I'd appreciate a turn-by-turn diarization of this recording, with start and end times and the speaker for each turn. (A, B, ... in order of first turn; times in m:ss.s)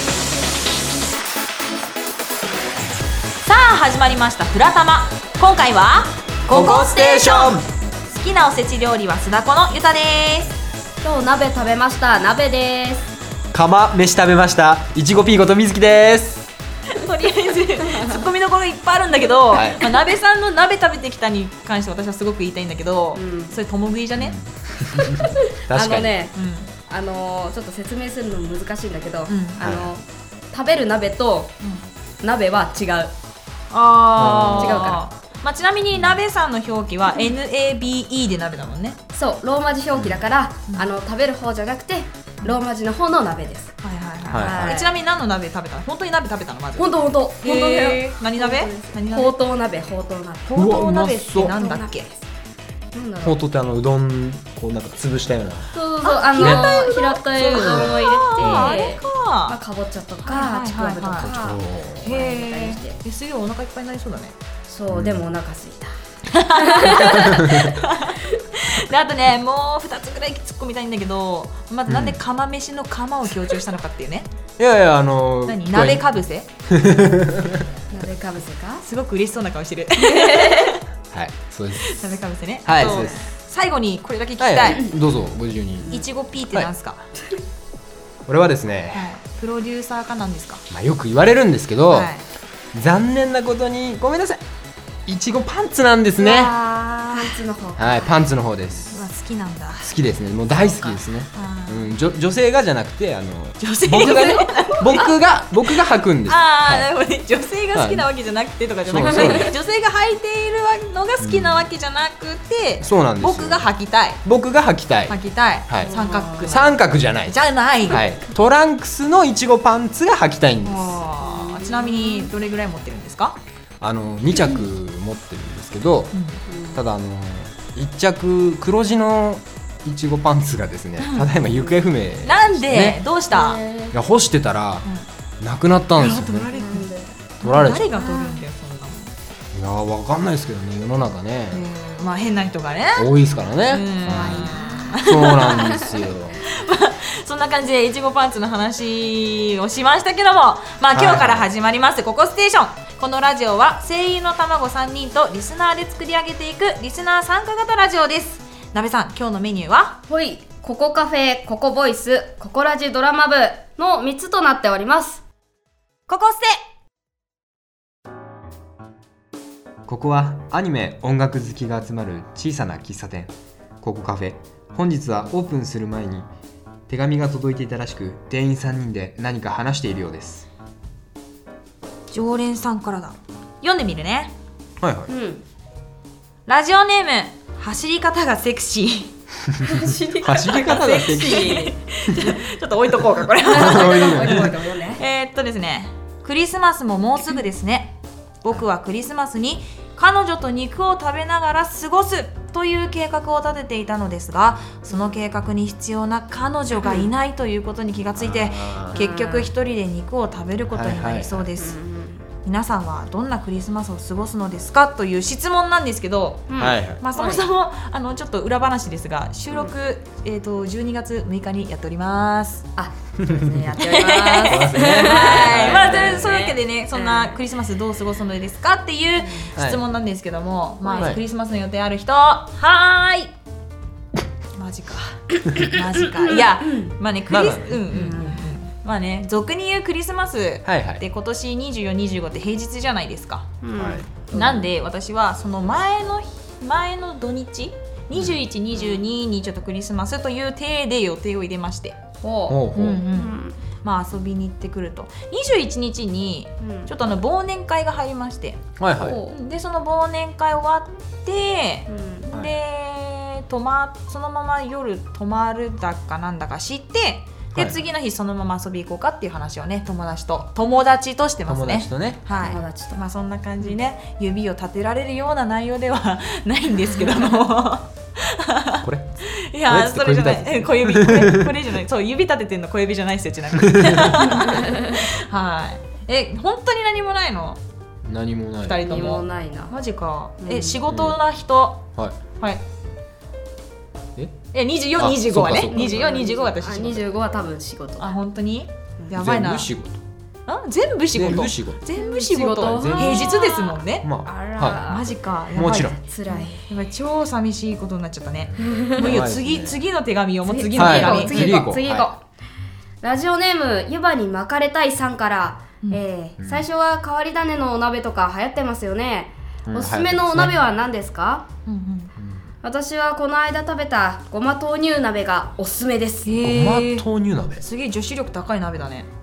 0:03.4-0:10.6 A
0:06.5-0:07.7 B
0:11.0-0:13.1 C
0:13.5-0:16.5 B
0:16.9-0:24.4 A
0:17.8-0:18.2 C
0:19.5-0:19.8 B
0:23.2-0:23.6 C
0:24.2-0:26.2 B
0:24.9-0:26.4 C
0:26.3-0:26.7 A
0:26.9-0:31.6 C
0:29.3-0:29.6 A
0:29.6-0:29.9 B
0:32.2-0:33.1 C
0:33.7-0:39.0 A
0:34.2-0:35.0 B
0:34.6-0:35.0 C
0:35.9-0:36.2 B
0:39.1-0:43.8 C
0:39.9-0:40.2 B
0:43.8-0:49.4 A
0:44.3-0:44.9 B
0:44.6-0:44.9 C
0:46.8-0:50.5 C
0:50.5-0:52.1 A
0:50.6-0:51.6 B
0:51.5-0:52.2 C
0:52.9-0:53.4 C
0:53.2-0:55.8 B
0:55.7-1:03.0 C
0:56.0-0:59.6 A
0:56.4-0:56.8 B
0:57.5-0:58.8 B
1:00.2-1:01.4 A
1:01.1-1:02.1 B
1:02.0-1:04.4 A
1:04.7-1:05.9 C
1:04.9-1:05.2 B
1:06.3-1:14.3 A
1:06.5-1:07.8 C
1:07.2-1:07.7 B
1:11.9-1:12.2 B
1:14.6-1:16.1 B
1:15.5-1:16.5 A
1:16.7-1:17.7 B
1:17.9-1:18.8 C
1:18.8-1:20.8 A
1:20.0-1:20.8 C
1:21.1-1:22.0 B
1:21.8-1:24.9 A
1:22.7-1:23.2 B
1:24.4-1:25.9 B
1:25.9-1:27.1 A
1:28.3-1:29.1 B
1:28.9-1:30.7 A
1:30.7-1:32.1 B
1:31.9-1:32.2 A
1:32.7-1:34.4 B
1:35.1-1:36.6 B
1:36.2-1:38.2 C
1:36.8-1:37.4 A
1:37.8-1:39.0 B
1:38.9-1:39.9 A
1:39.8-1:46.9 B
1:40.8-1:42.0 A
1:43.6-1:45.0 A
1:44.0-1:45.1 C
1:46.3-1:54.2 A
1:47.7-1:48.1 B
1:48.9-1:49.5 B
1:49.1-1:49.5 C
1:51.2-1:51.7 B
1:52.8-1:53.7 B
1:54.2-1:55.2 B
1:55.1-1:58.0 A
1:55.7-2:01.0 B
1:55.8-1:56.6 C
2:00.6-2:03.4 A
2:01.2-2:02.3 C
2:03.8-2:06.1 B
2:06.1-2:06.4 A
2:06.5-2:06.8 C
2:06.7-2:13.0 B
2:11.0-2:11.3 A
2:11.4-2:11.8 C
2:12.2-2:13.6 A
2:13.3-2:14.0 C
2:13.9-2:14.9 B
2:15.4-2:16.5 B
2:16.0-2:16.9 A
2:16.5-2:17.2 C
2:17.4-2:19.1 A
2:17.4-2:18.0 B
2:18.0-2:18.4 C
2:19.5-2:21.6 B
2:21.5-2:23.1 A
2:23.0-2:26.4 B
2:23.7-2:25.9 A
2:24.0-2:25.6 C
2:26.4-2:40.0 A
2:30.9-2:31.5 B
2:40.1-2:45.2 C
2:46.1-2:46.6 A
2:49.9-2:56.3 B
2:56.9-3:00.5 B
3:02.1-3:04.3 A
3:04.8-3:05.1 B
3:05.1-3:05.4 C
3:06.5-3:09.1 A
3:09.6-3:11.8 C
3:10.2-3:11.6 B
3:10.5-3:31.8 A
3:13.5-3:15.0 C
3:13.5-3:14.6 B
3:26.8-3:27.1 C
3:28.2-3:29.0 B
3:28.9-3:29.5 C
3:30.7-3:31.5 B
3:31.6-3:32.3 C
3:32.4-3:42.7 A
3:36.5-3:37.4 C
3:36.6-3:37.0 B
3:42.8-3:47.4 C
3:43.3-3:43.7 B
3:43.8-3:53.3 A
3:44.5-3:46.3 B
3:49.6-3:49.8 B
3:50.8-3:51.2 C
3:54.6-4:03.5 A
3:56.1-3:56.9 C
3:57.3-3:58.2 B
3:57.9-3:58.4 C
4:00.6-4:01.0 B
4:03.6-4:04.7 C
4:03.8-4:04.0 B
4:04.3-4:12.0 A
4:08.7-4:09.0 C
4:12.2-4:13.6 C
4:12.5-4:13.0 B
4:12.8-4:18.7 A
4:16.6-4:16.9 C
4:18.8-4:19.2 B
4:18.9-4:19.4 C
4:19.3-4:47.6 A
4:21.9-4:22.3 C
4:31.5-4:32.2 B
4:32.4-4:33.0 C
4:38.8-4:41.5 B
4:43.6-4:44.4 B
4:44.4-4:45.0 C
4:48.0-4:49.0 B
4:48.6-4:51.9 A
4:48.8-4:49.7 C
4:50.4-4:50.8 C
4:50.9-4:51.2 B
4:54.5-4:57.1 A
4:55.0-4:56.0 B
4:55.7-4:58.1 C
4:58.0-4:59.7 A
4:59.1-5:00.0 B
5:00.5-5:04.1 A
5:01.2-5:01.8 B
5:02.0-5:05.1 C
5:02.6-5:03.4 B
5:04.0-5:04.9 B
5:04.8-5:11.6 A
5:05.5-5:06.0 B
5:06.0-5:06.7 C
5:08.6-5:09.2 C
5:09.0-5:09.8 B
5:10.4-5:12.2 C
5:10.8-5:12.1 B
5:13.0-5:21.5 C
5:16.4-5:16.6 B
5:19.7-5:20.6 B
5:21.7-5:22.1 A
5:22.2-5:22.4 B
5:22.6-5:26.4 C
5:26.2-5:27.1 A
5:26.4-5:27.6 B
5:27.6-5:29.1 A